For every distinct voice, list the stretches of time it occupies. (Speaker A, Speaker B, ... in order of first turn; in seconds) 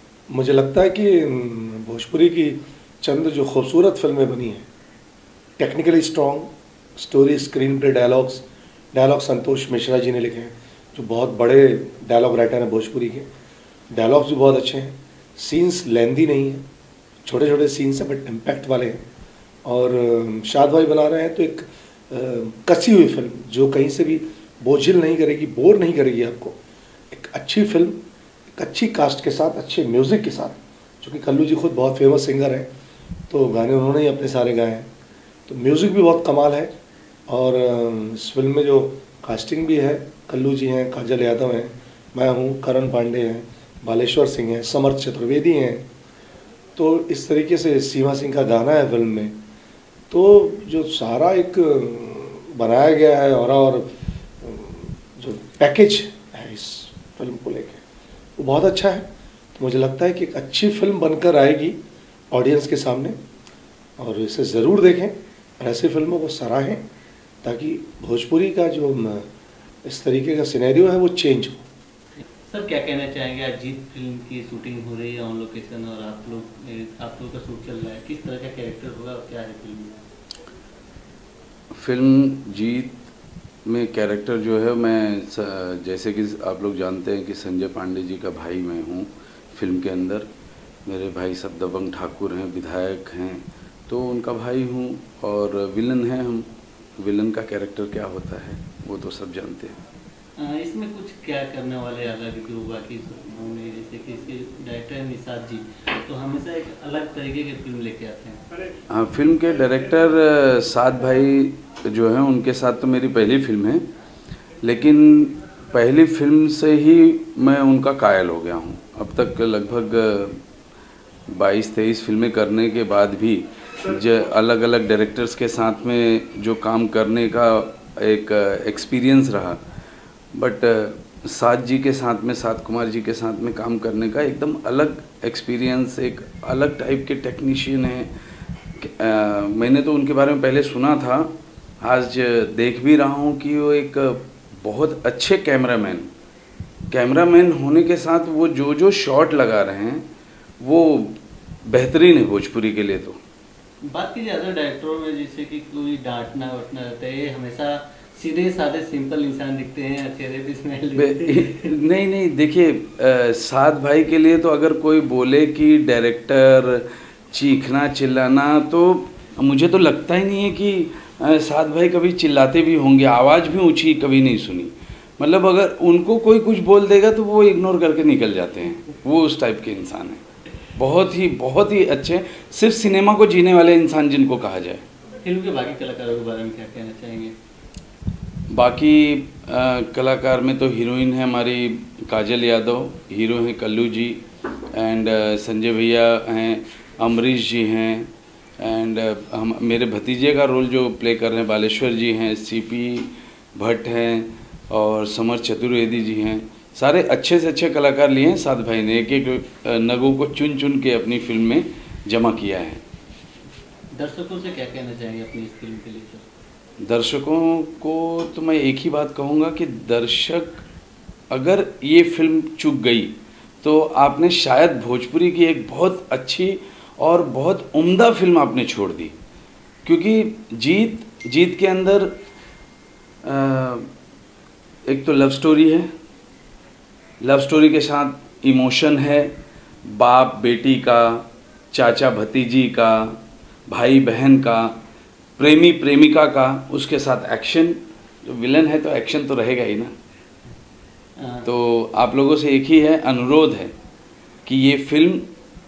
Speaker A: 0.3-4.7, 5.6-13.3, 13.9-16.6, 17.2-19.0, 19.6-26.6, 27.1-28.0, 28.6-32.7, 33.3-34.9, 35.5-36.7, 37.3-45.9, 46.8-49.4, 50.1-57.8, 58.4-61.8, 62.3-63.2, 64.0-66.8, 67.4-69.3, 69.8-71.6
Speaker B: 72.2-79.9, 100.4-108.4, 153.8-161.7, 185.2-187.3, 213.9-216.2, 251.2-251.5
Speaker C: 81.7-83.0, 83.7-90.3, 90.8-96.5, 97.0-99.8, 108.9-113.8, 114.6-120.4, 121.3-129.6, 130.3-138.1, 138.8-146.1, 146.9-150.1, 150.6-153.2, 160.9-180.2, 180.8-184.8, 188.5-194.2, 194.7-198.1, 198.6-212.8, 216.8-220.6, 221.3-229.1, 229.8-232.2, 233.2-233.9, 234.9-235.9, 237.2-239.3, 239.9-244.8, 245.4-249.9, 251.4-253.7, 254.4-255.2